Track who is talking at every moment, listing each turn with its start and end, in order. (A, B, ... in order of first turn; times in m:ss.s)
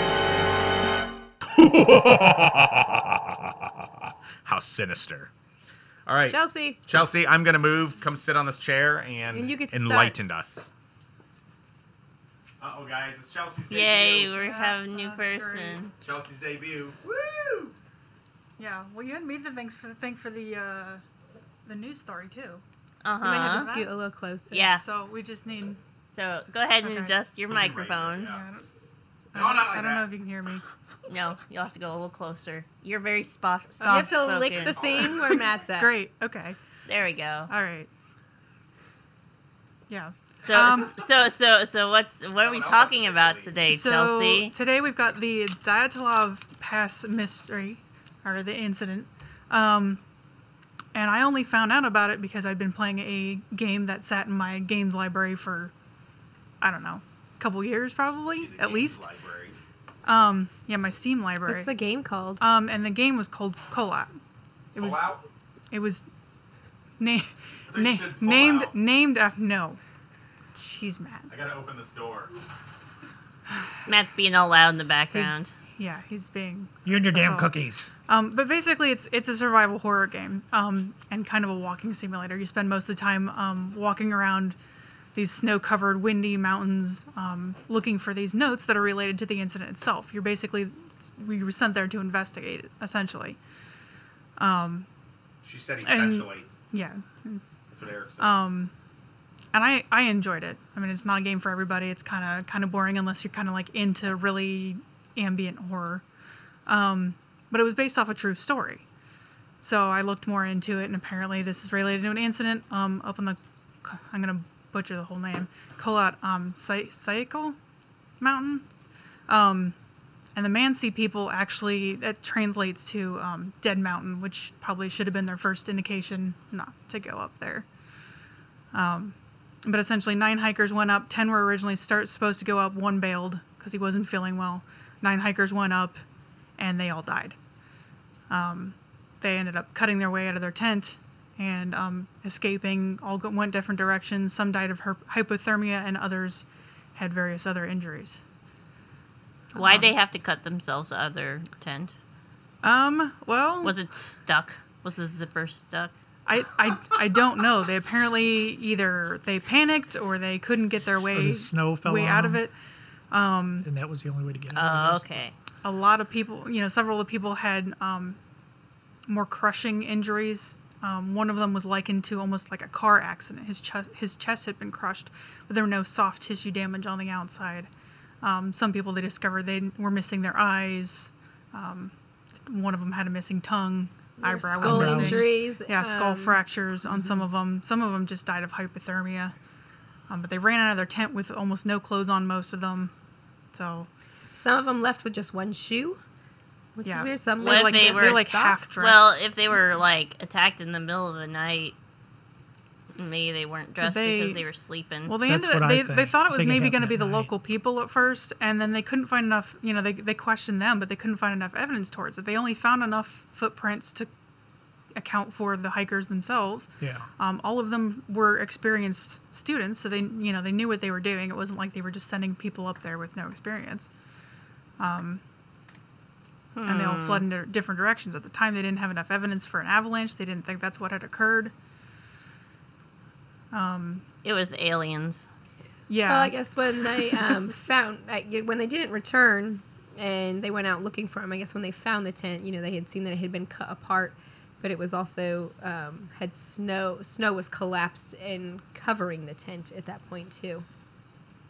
0:01.4-0:03.5 A
0:04.4-0:05.3 A
0:06.1-0:10.7 A
0:06.3-0:06.8 B
0:09.3-0:10.2 B
0:12.6-0:14.3 A
0:13.7-0:15.9 C
0:14.3-0:15.8 D
0:16.0-0:17.7 A
0:18.6-0:21.0 D
0:21.6-0:22.6 D
0:23.0-0:23.7 C
0:23.2-0:23.9 D
0:23.2-0:24.7 B
0:24.5-0:24.8 C
0:24.8-0:25.8 D
0:26.1-0:28.3 C
0:26.8-0:27.1 D
0:27.5-0:28.4 A
0:28.2-0:28.6 D
0:29.3-0:30.6 D
0:29.3-0:30.1 A
0:31.1-0:34.8 C
0:33.8-0:34.3 D
0:33.8-0:35.9 B
0:34.6-0:35.4 A
0:35.6-0:36.6 D
0:36.8-0:37.5 C
0:37.5-0:37.9 D
0:39.9-0:41.0 D
0:40.4-0:44.5 C
0:42.3-0:43.6 A
0:43.6-0:50.0 D
0:50.9-0:55.7 D
0:56.6-0:59.0 D
0:58.3-0:59.6 A
1:00.0-1:01.7 D
1:01.4-1:02.4 B
1:02.4-1:04.1 D
1:04.7-1:05.2 D
1:04.8-1:05.2 A
1:05.7-1:06.0 D
1:07.0-1:09.8 D
1:07.7-1:08.7 A
1:10.5-1:11.3 D
1:11.3-1:12.3 A
1:13.8-1:15.5 C
1:15.1-1:17.6 D
1:16.8-1:17.9 E
1:18.1-1:24.6 D
1:25.1-1:33.4 D
1:34.4-1:34.9 D
1:35.4-1:36.5 A
1:35.8-1:37.6 D
1:37.7-1:38.5 A
1:38.2-1:38.7 D
1:39.5-1:46.0 D
1:46.6-1:48.8 D
1:49.6-1:57.6 D
1:58.2-1:58.6 D
1:59.3-1:59.8 D
2:00.3-2:07.7 D
2:08.7-2:16.0 D
2:16.6-2:17.4 D
2:18.3-2:28.2 D
2:29.5-2:29.9 D
2:29.5-2:31.9 C
2:32.6-2:33.8 D
2:33.6-2:35.9 C
2:36.3-2:42.5 D
2:41.1-2:42.4 E
2:43.1-2:43.6 D
2:43.6-2:45.1 E
2:44.5-2:45.3 C
2:45.6-2:48.2 D
2:49.1-2:57.7 D
2:58.2-3:01.9 D
3:02.4-3:09.3 D
3:04.2-3:06.4 B
3:04.6-3:05.3 E
3:10.1-3:12.9 D
3:13.5-3:13.9 D
3:14.3-3:16.0 B
3:16.8-3:18.8 B
3:16.8-3:19.2 D
3:17.4-3:21.7 C
3:22.9-3:25.1 C
3:23.8-3:24.4 D
3:25.0-3:34.1 D
3:25.2-3:27.3 E
3:34.9-3:43.9 D
3:36.8-3:37.1 E
3:44.8-3:45.2 D
3:46.5-3:47.3 C
3:46.6-3:51.5 D
3:53.5-3:54.0 D
3:54.2-3:55.2 C
3:55.9-3:57.3 D
3:56.0-4:10.6 B